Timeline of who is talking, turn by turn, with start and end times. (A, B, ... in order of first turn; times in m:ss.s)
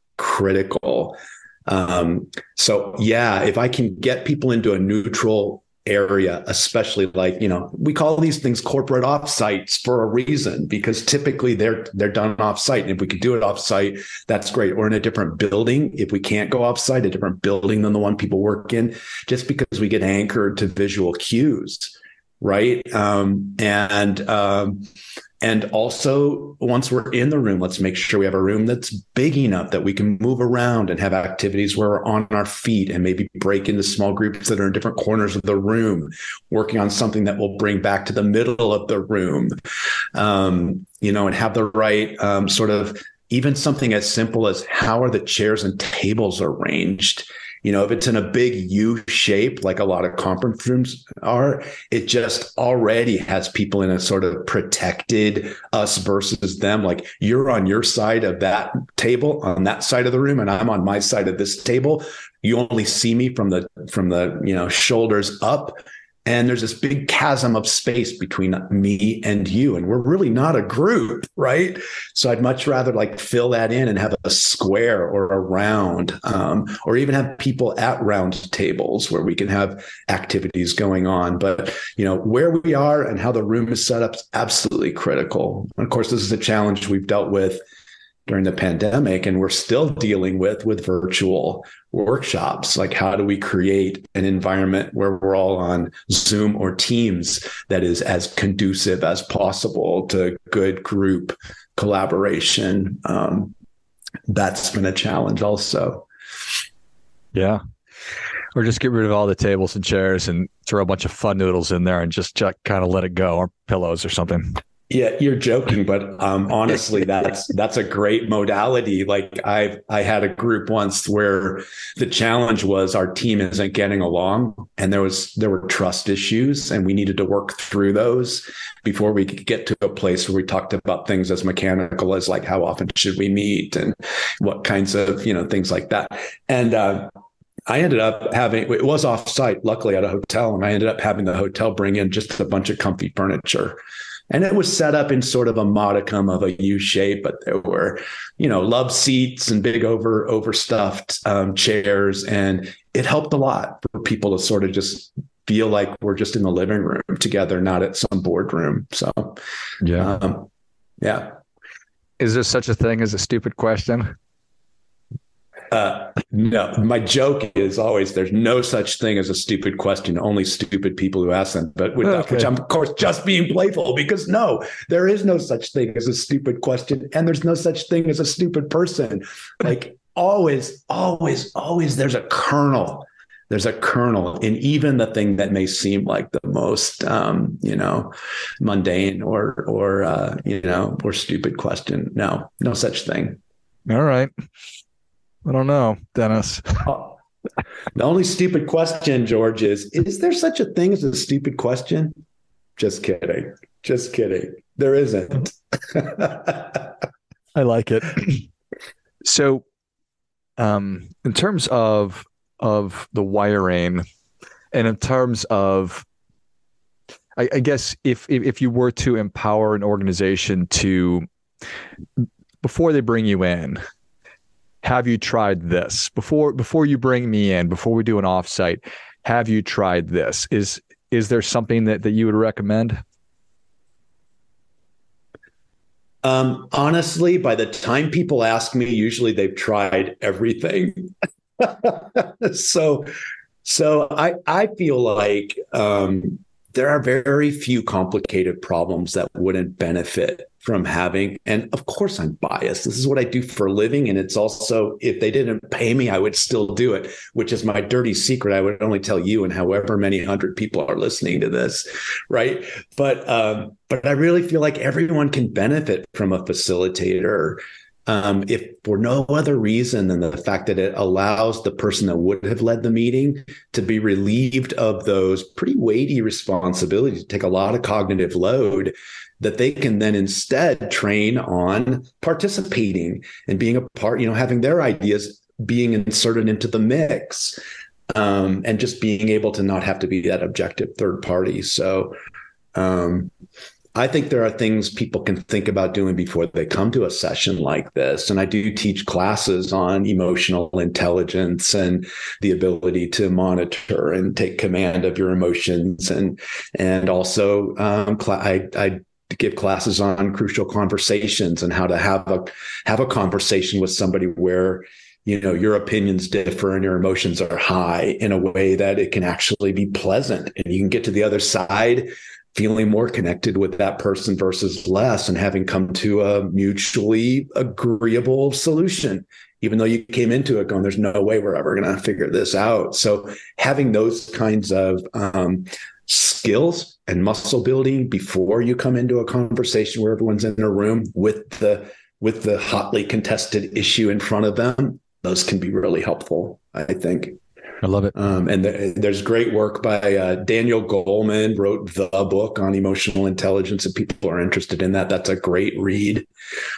0:00.2-0:24.8 A
0:25.4-0:39.5 A
0:40.2-1:05.7 A
1:06.3-1:27.6 A
1:28.3-1:43.5 A
1:44.3-1:46.0 A
1:47.3-1:47.6 B
1:48.6-1:54.6 B
1:54.9-2:17.1 A
2:17.7-2:23.8 A
2:24.3-2:39.4 A
2:39.8-2:40.2 B
2:40.0-2:40.5 A
2:41.0-2:41.3 A
2:42.2-2:44.1 B
2:45.7-3:08.1 A
2:52.0-2:52.5 B
3:08.6-3:13.4 A
3:13.9-3:14.3 B
3:15.4-3:17.1 B
3:18.0-3:22.1 A
3:22.8-3:26.4 A
3:27.6-3:28.5 B
3:29.2-3:29.6 B
3:30.6-3:34.0 B
3:34.7-3:36.0 B
3:37.4-3:41.2 B
3:42.6-3:43.8 B
3:44.8-3:53.0 B
3:56.2-4:03.1 A
4:03.6-4:47.5 A
4:48.1-4:52.1 A
4:52.8-4:53.3 A
4:54.0-5:47.4 A
5:47.8-5:48.2 B
5:48.2-5:56.3 A